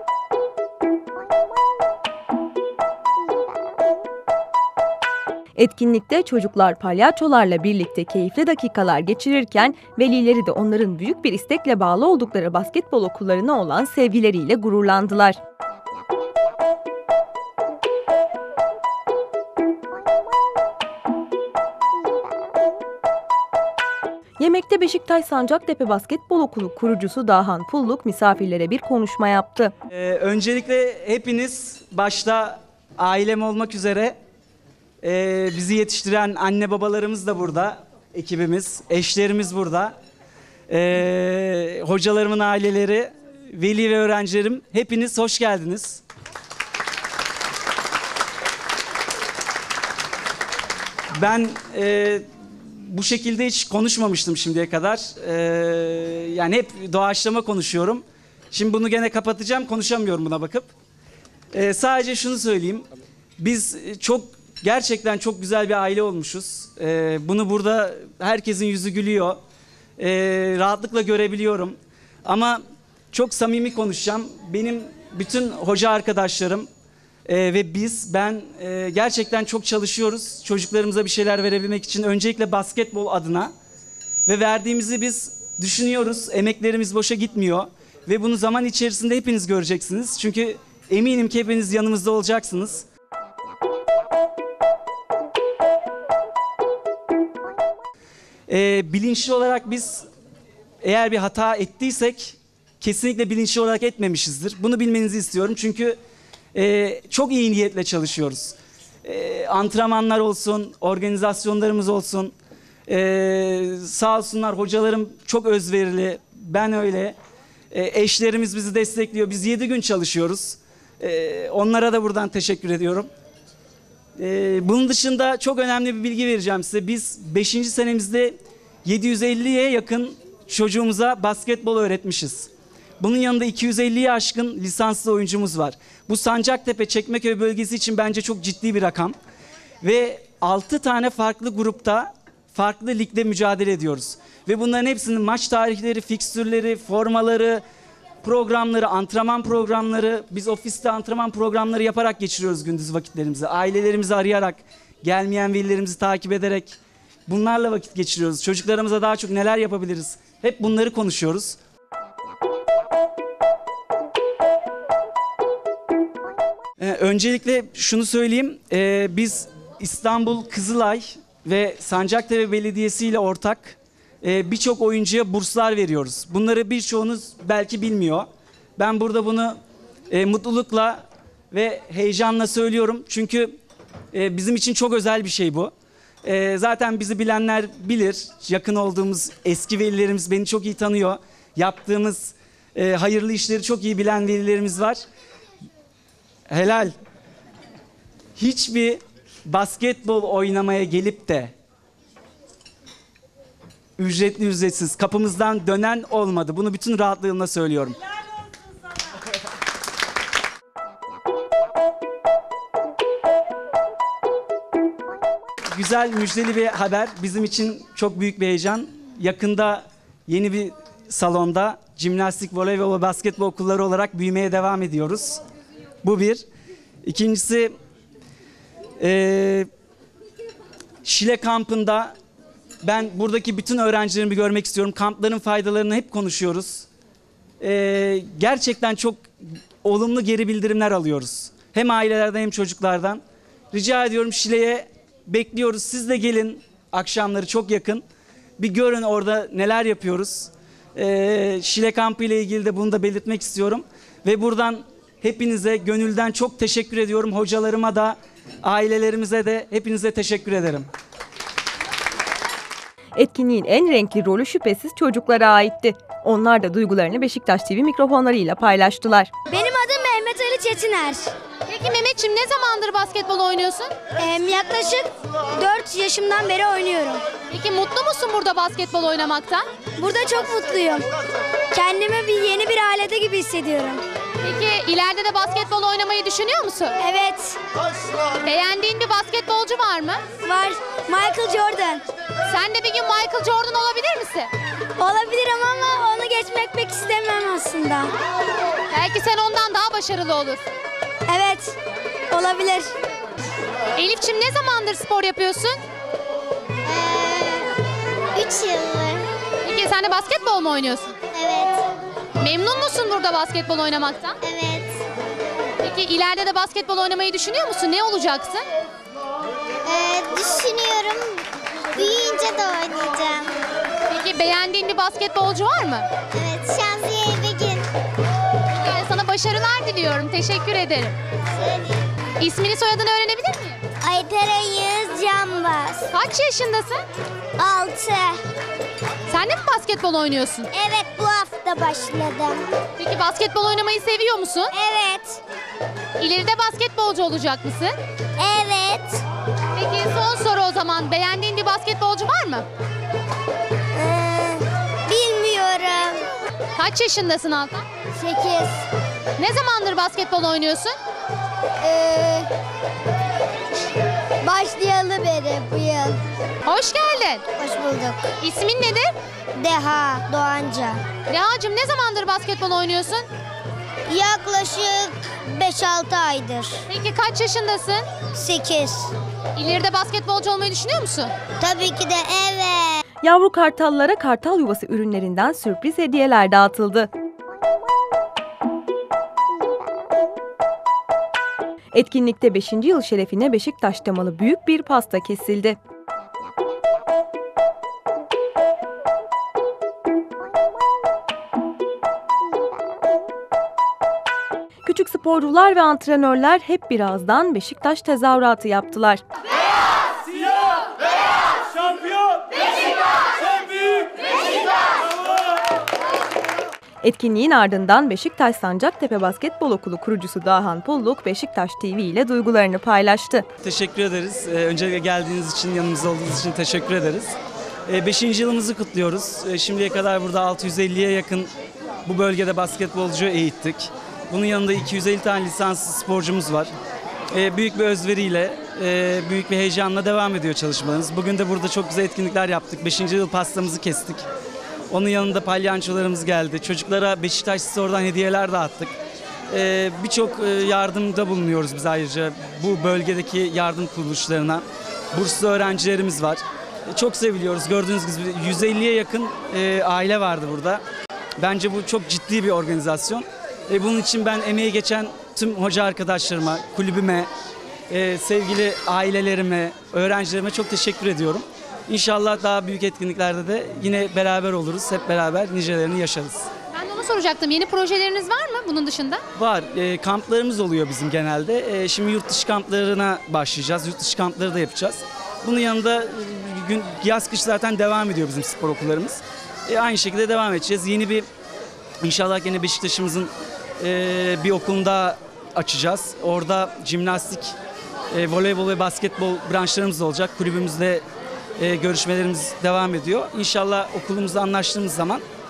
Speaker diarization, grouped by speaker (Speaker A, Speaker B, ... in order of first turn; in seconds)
Speaker A: 5.6-15.4, 24.4-29.7, 263.1-269.3, 383.2-387.1, 391.9-395.8, 404.8-409.2, 417.0-423.5
Speaker B: 29.9-34.2, 35.0-40.0, 40.7-46.0, 51.1-60.7, 61.5-62.9, 63.4-69.4, 70.0-72.6, 73.1-76.7, 77.3-83.5, 84.3-92.9, 98.5-100.1, 100.8-106.0, 106.5-112.3, 112.9-117.2, 117.7-123.1, 124.2-132.5, 133.0-139.2, 139.8-147.6, 148.2-161.6, 166.8-179.6, 180.1-183.5, 184.1-185.7, 186.2-195.0, 196.5-196.9, 198.4-201.5, 204.0-208.0, 215.7-225.4, 226.0-226.4, 227.0-227.7, 229.0-229.7, 231.1-232.1, 232.8-236.9, 237.6-239.2, 239.8-248.0, 248.6-260.9, 423.6-427.4, 427.9-431.5, 432.1-436.7, 437.3-444.2, 444.9-448.9, 449.5-460.8, 461.4-467.3, 467.9-476.5, 479.4-491.3, 492.0-497.5, 498.1-501.0, 501.6-505.2
Speaker C: 269.5-271.3, 274.2-277.2, 280.0-281.1, 281.7-284.0, 287.0-287.6, 290.4-292.0, 295.0-298.1, 301.3-301.8, 302.3-302.9, 306.8-307.7, 308.3-309.3, 311.3-311.8, 314.4-315.0, 319.8-323.6, 326.3-327.9, 331.5-332.1, 334.0-336.1, 337.6-338.4, 340.7-342.7, 344.7-345.4, 348.4-349.2, 353.9-356.3, 358.1-358.9, 361.8-362.5, 364.4-366.2, 367.6-368.3, 369.5-371.0, 374.1-376.9, 378.3-379.1, 381.6-383.0
Speaker D: 271.7-273.9, 277.5-279.7, 284.4-287.0, 288.4-290.2, 292.5-294.5, 298.9-300.6, 304.0-305.8, 309.6-311.1, 312.4-314.4, 315.8-318.6, 324.1-326.1, 328.8-331.2, 332.4-333.8, 336.1-337.0, 339.3-340.7, 343.0-344.7, 346.2-347.9, 349.8-352.7, 356.8-357.9, 359.4-361.0, 366.6-367.4, 368.4-369.1, 371.3-373.3, 376.9-378.1, 379.6-381.3, 476.7-479.2